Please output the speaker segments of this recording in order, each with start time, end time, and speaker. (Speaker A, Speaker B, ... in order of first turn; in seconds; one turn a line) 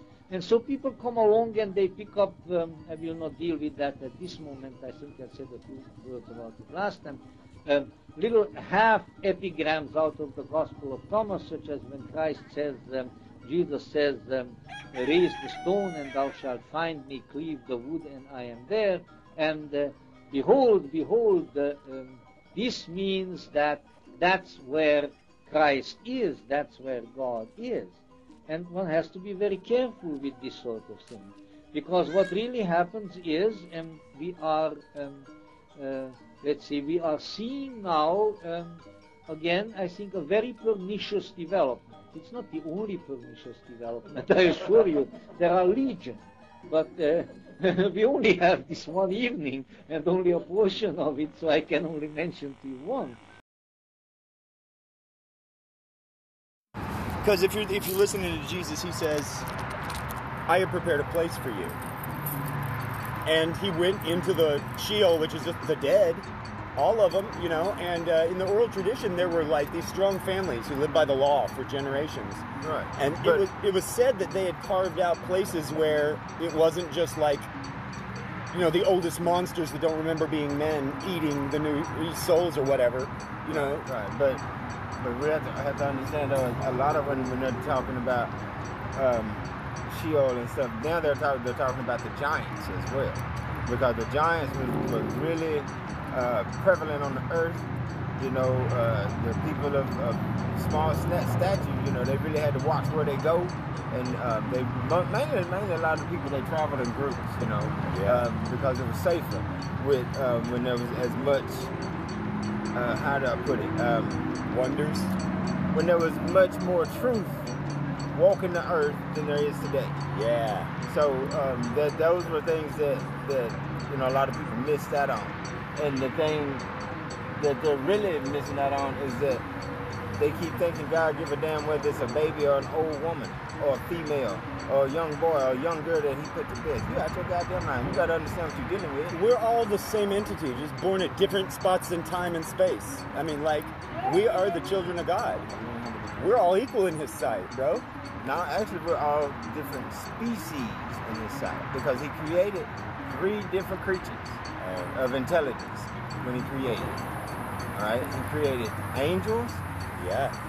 Speaker A: 0.3-53.2
Speaker B: 57.2-59.5
Speaker B: 60.5-61.8
Speaker B: 63.2-72.4
Speaker C: 72.6-73.5
Speaker B: 73.0-77.5
Speaker B: 78.5-83.9
Speaker C: 83.5-84.4
Speaker C: 85.0-88.3
Speaker C: 88.9-97.6
Speaker C: 98.2-111.7
Speaker B: 107.9-108.2
Speaker C: 112.7-114.2
Speaker B: 114.5-115.1
Speaker C: 115.7-117.5
Speaker C: 118.1-120.0
Speaker B: 120.1-120.7
Speaker C: 120.8-126.7
Speaker C: 127.4-129.4
Speaker C: 130.1-139.2
Speaker B: 139.1-145.5
Speaker B: 146.2-147.8
Speaker C: 148.2-156.9
Speaker B: 154.6-154.9
Speaker C: 157.7-159.6
Speaker B: 160.0-160.3